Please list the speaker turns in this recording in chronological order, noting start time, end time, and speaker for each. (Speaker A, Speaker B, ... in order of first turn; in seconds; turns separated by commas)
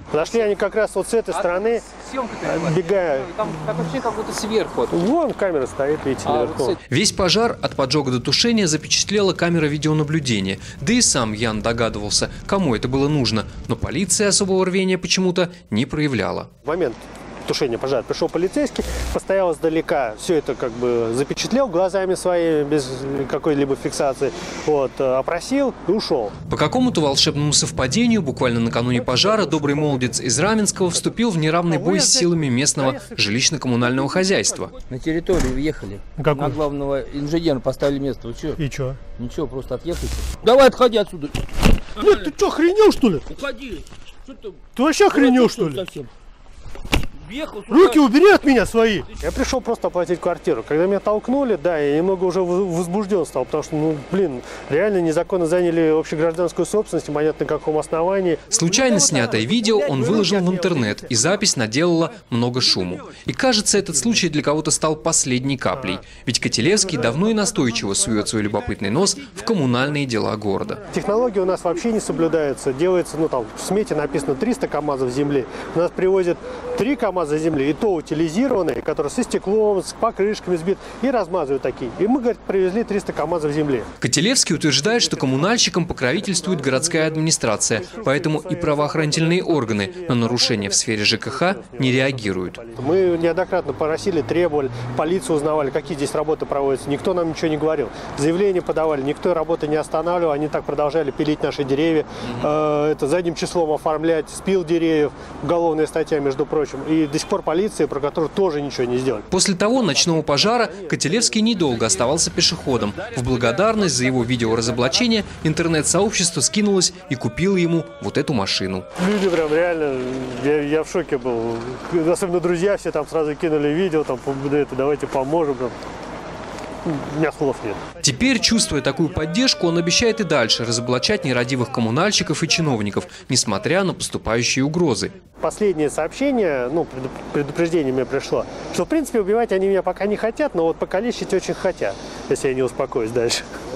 Speaker A: 0.1-1.9, Speaker B: 1.3-5.1, Speaker A: 2.4-3.7, Speaker A: 4.9-6.8, Speaker B: 6.2-16.5, Speaker A: 16.6-26.4, Speaker B: 26.5-34.8, Speaker A: 29.1-30.1, Speaker A: 31.0-33.5, Speaker A: 34.0-34.5, Speaker C: 34.9-38.6, Speaker A: 36.2-36.6, Speaker A: 38.6-39.0, Speaker C: 39.2-41.5, Speaker A: 42.0-43.3, Speaker C: 42.0-42.3, Speaker C: 43.3-44.6, Speaker A: 44.8-45.8, Speaker C: 45.1-46.1, Speaker C: 47.2-48.0, Speaker A: 47.7-61.4, Speaker B: 58.5-70.8, Speaker A: 65.7-66.0, Speaker A: 66.8-68.2, Speaker A: 70.9-83.9, Speaker B: 84.0-92.6, Speaker A: 84.8-112.0, Speaker B: 109.3-118.9, Speaker A: 119.0-125.8, Speaker A: 126.8-128.0, Speaker B: 128.0-135.1, Speaker A: 135.4-143.4